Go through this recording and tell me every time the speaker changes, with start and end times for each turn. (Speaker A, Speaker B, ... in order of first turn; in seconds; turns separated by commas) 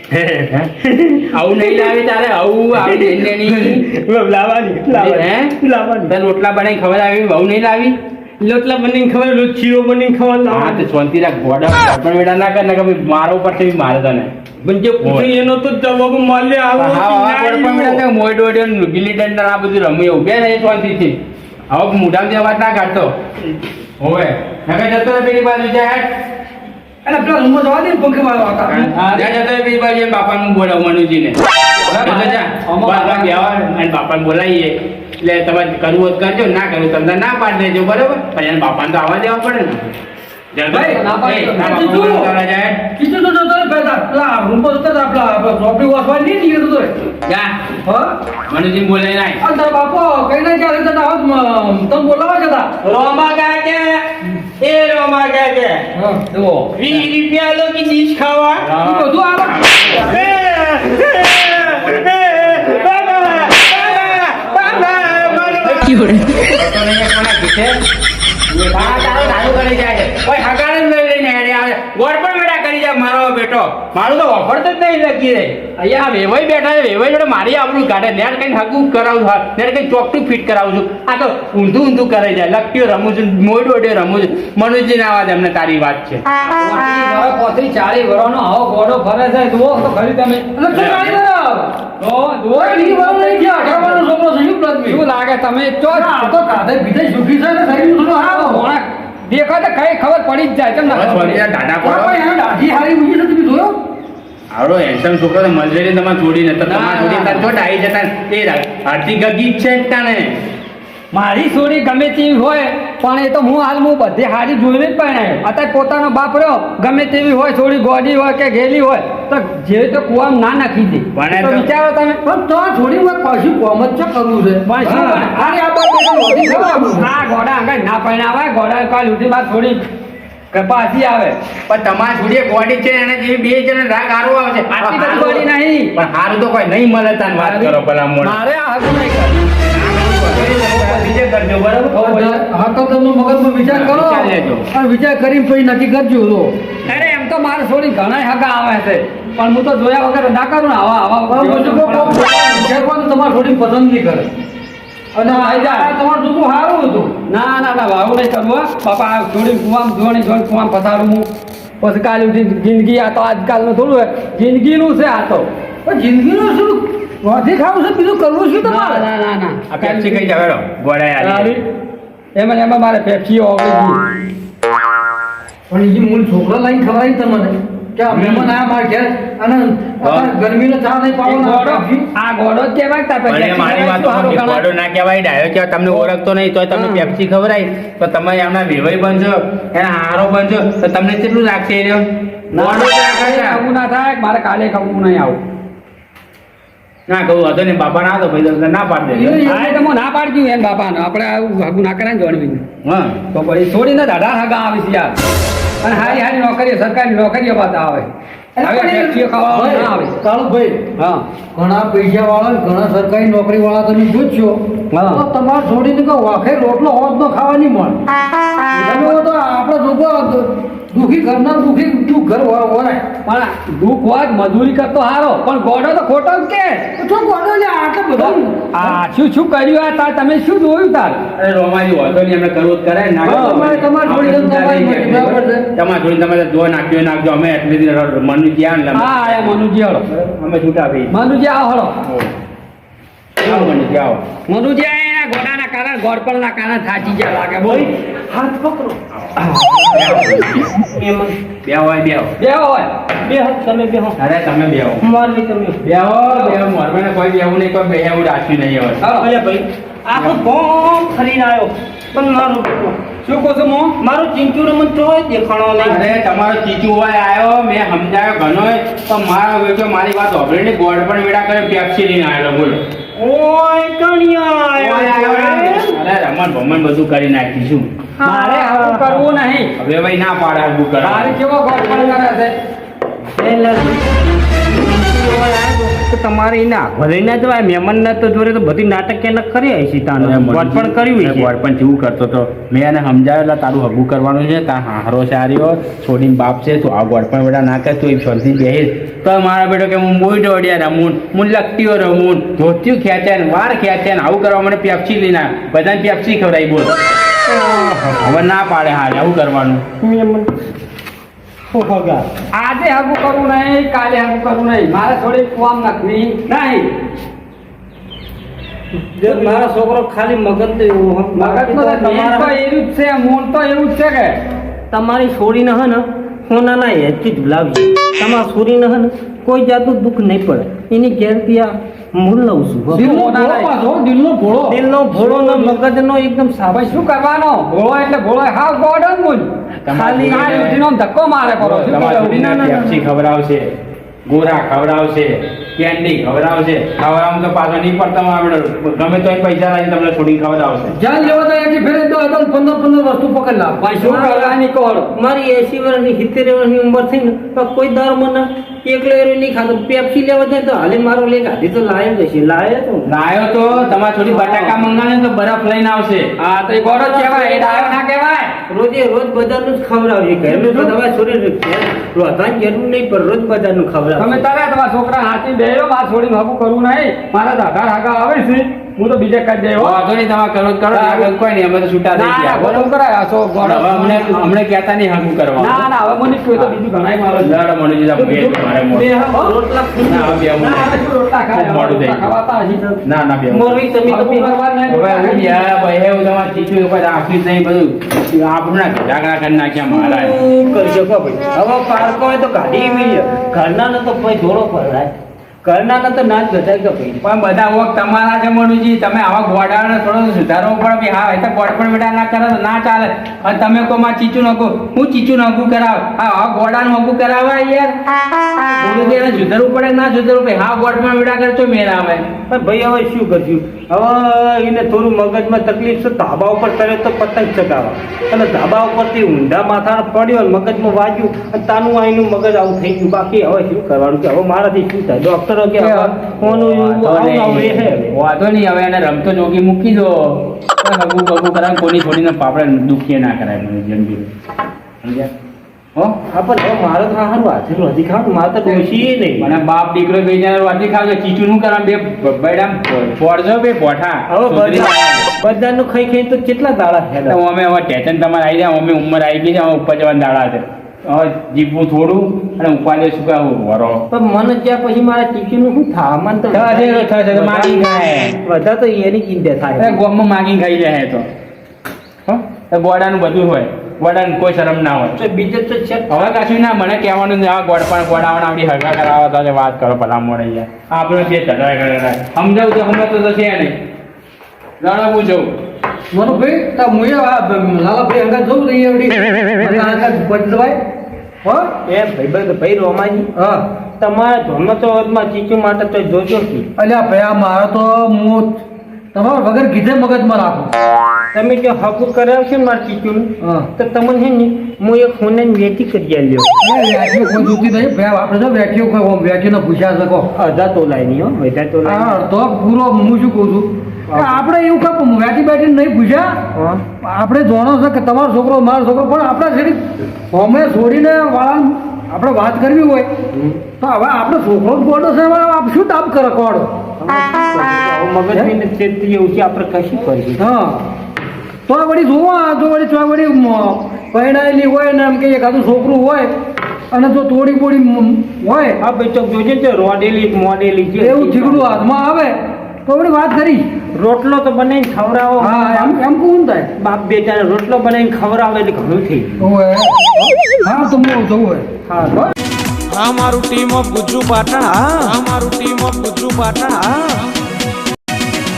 Speaker A: 0.1-1.9, Speaker B: 1.3-3.9, Speaker A: 2.8-6.1, Speaker B: 4.9-8.0, Speaker A: 8.4-10.8, Speaker B: 10.5-14.3, Speaker A: 14.6-18.0, Speaker B: 15.0-15.3, Speaker B: 16.8-21.2, Speaker B: 21.7-23.1, Speaker B: 24.0-26.1, Speaker C: 27.0-28.9, Speaker B: 28.7-31.4, Speaker D: 31.9-33.3, Speaker B: 31.9-39.9, Speaker B: 40.5-42.8, Speaker C: 40.7-41.0, Speaker D: 40.7-42.0, Speaker C: 41.6-42.3, Speaker C: 43.0-47.0, Speaker B: 47.2-47.6, Speaker C: 47.8-48.1, Speaker B: 48.5-49.4, Speaker C: 49.4-52.7, Speaker A: 52.8-55.9, Speaker C: 55.9-56.2, Speaker D: 56.3-57.0, Speaker A: 56.7-58.7, Speaker B: 58.6-60.2, Speaker C: 58.7-59.9, Speaker A: 59.9-66.3, Speaker B: 64.5-67.8, Speaker B: 68.5-86.2, Speaker D: 86.4-90.5, Speaker C: 90.5-91.8, Speaker B: 90.7-91.2, Speaker D: 92.0-94.0, Speaker C: 92.5-95.0, Speaker D: 94.9-96.3, Speaker C: 95.9-98.7, Speaker D: 97.9-101.4, Speaker B: 100.8-102.2, Speaker C: 101.8-103.8, Speaker B: 104.5-110.4, Speaker D: 106.7-107.4, Speaker D: 111.1-122.2, Speaker B: 121.1-121.7, Speaker C: 122.2-127.1, Speaker D: 124.7-125.6, Speaker D: 126.3-129.8, Speaker D: 130.5-131.3, Speaker B: 131.7-138.4, Speaker D: 134.7-135.9, Speaker D: 137.4-139.4, Speaker B: 139.7-142.0, Speaker D: 140.4-141.1, Speaker D: 141.9-142.4, Speaker C: 141.9-146.6, Speaker B: 143.6-144.7, Speaker B: 146.8-147.1, Speaker D: 146.8-152.2, Speaker C: 151.3-154.3, Speaker D: 155.2-155.9, Speaker C: 155.2-157.1, Speaker D: 157.3-161.2, Speaker D: 161.8-165.5, Speaker C: 165.8-169.0, Speaker D: 168.6-170.3, Speaker B: 169.7-171.6, Speaker D: 171.2-171.6, Speaker D: 172.3-174.0, Speaker C: 175.7-182.0, Speaker B: 178.1-178.5, Speaker B: 180.0-180.3, Speaker D: 181.2-184.6, Speaker B: 183.3-193.6, Speaker D: 186.7-187.1, Speaker D: 192.5-195.4, Speaker B: 197.1-199.4, Speaker C: 199.1-199.8, Speaker D: 199.4-202.6, Speaker B: 202.8-203.2, Speaker D: 203.3-205.1, Speaker D: 205.8-208.1, Speaker C: 208.6-210.8, Speaker D: 208.6-210.2, Speaker D: 211.0-211.2, Speaker C: 211.5-218.0, Speaker D: 214.9-215.2, Speaker D: 218.7-219.2, Speaker C: 218.8-223.0, Speaker D: 223.2-226.9, Speaker C: 227.0-229.0, Speaker D: 228.2-231.2, Speaker B: 231.3-241.1, Speaker D: 233.2-233.6, Speaker C: 233.2-235.7, Speaker D: 238.9-240.0, Speaker D: 241.1-241.9, Speaker B: 242.0-242.3, Speaker B: 243.4-244.2, Speaker D: 244.5-247.9, Speaker A: 247.6-251.3, Speaker B: 249.9-250.7, Speaker B: 251.6-252.3, Speaker D: 252.4-252.9, Speaker A: 253.2-254.2, Speaker B: 254.2-255.0, Speaker A: 255.0-255.9, Speaker B: 255.8-259.0, Speaker D: 259.0-259.3, Speaker A: 259.1-263.0, Speaker D: 263.2-263.9, Speaker A: 264.0-266.1, Speaker B: 265.8-272.8, Speaker A: 273.1-275.9, Speaker B: 274.8-277.9, Speaker A: 278.2-279.2, Speaker D: 278.2-279.7, Speaker B: 279.8-281.3, Speaker D: 281.0-282.5, Speaker A: 283.4-284.1, Speaker A: 284.6-291.5, Speaker B: 290.2-306.9, Speaker A: 307.5-308.4, Speaker B: 308.2-309.8, Speaker A: 310.0-310.5, Speaker A: 311.7-312.2, Speaker D: 312.5-316.9, Speaker A: 319.1-322.5, Speaker D: 321.3-324.4, Speaker A: 324.9-333.1, Speaker D: 332.9-333.7, Speaker C: 332.9-334.8, Speaker A: 334.6-337.0, Speaker D: 335.1-335.7, Speaker D: 336.7-339.5, Speaker B: 339.8-340.8, Speaker A: 339.9-340.7, Speaker D: 340.2-342.4, Speaker B: 341.6-343.7, Speaker A: 342.2-343.0, Speaker B: 344.3-351.0, Speaker C: 350.9-353.8, Speaker D: 353.8-355.1, Speaker A: 354.0-354.5, Speaker A: 355.1-363.1, Speaker B: 363.1-366.3, Speaker A: 364.3-364.8, Speaker D: 366.4-368.5, Speaker A: 367.0-368.0, Speaker A: 368.7-374.4, Speaker D: 370.5-370.9, Speaker D: 374.2-380.0, Speaker B: 379.8-382.9, Speaker D: 380.9-381.3, Speaker D: 382.1-384.4, Speaker B: 383.6-385.9, Speaker D: 385.6-387.5, Speaker B: 387.4-389.2, Speaker A: 388.1-390.5, Speaker B: 390.0-391.0, Speaker D: 390.6-392.8, Speaker B: 391.5-392.3, Speaker B: 393.0-393.8, Speaker A: 393.5-394.5, Speaker D: 394.1-395.7, Speaker B: 394.9-400.4, Speaker A: 399.9-405.1, Speaker A: 405.6-407.2, Speaker B: 407.2-417.9, Speaker B: 418.8-422.2, Speaker A: 418.9-419.4, Speaker A: 422.5-438.1, Speaker C: 435.8-436.1, Speaker B: 436.4-444.3, Speaker B: 445.0-445.3, Speaker A: 446.3-449.5, Speaker B: 449.4-455.2, Speaker A: 454.3-457.4, Speaker B: 457.3-464.1, Speaker A: 464.1-467.8, Speaker B: 466.5-468.4, Speaker A: 468.4-469.9, Speaker B: 469.8-471.3, Speaker B: 472.2-475.2, Speaker A: 475.2-476.3, Speaker B: 476.1-483.8, Speaker B: 484.8-485.5, Speaker C: 486.1-490.8, Speaker A: 489.6-490.0, Speaker C: 491.4-491.7, Speaker A: 491.9-493.3, Speaker C: 493.4-493.6, Speaker A: 494.0-496.6, Speaker C: 496.8-498.6, Speaker C: 499.1-500.7, Speaker A: 501.3-506.5, Speaker C: 503.4-503.7, Speaker C: 506.6-510.3, Speaker A: 510.3-512.2, Speaker C: 511.8-516.4, Speaker A: 514.1-514.4, Speaker A: 516.5-516.8, Speaker C: 517.0-523.1, Speaker A: 523.3-523.6, Speaker C: 523.8-526.8, Speaker A: 527.0-530.4, Speaker C: 530.4-530.8, Speaker C: 531.7-536.3, Speaker C: 536.9-538.8, Speaker A: 538.8-541.8, Speaker C: 541.0-543.7, Speaker A: 543.9-546.0, Speaker C: 545.4-546.7, Speaker A: 546.8-549.5, Speaker C: 549.4-550.0, Speaker C: 550.6-551.7, Speaker A: 551.9-552.3, Speaker E: 552.9-557.3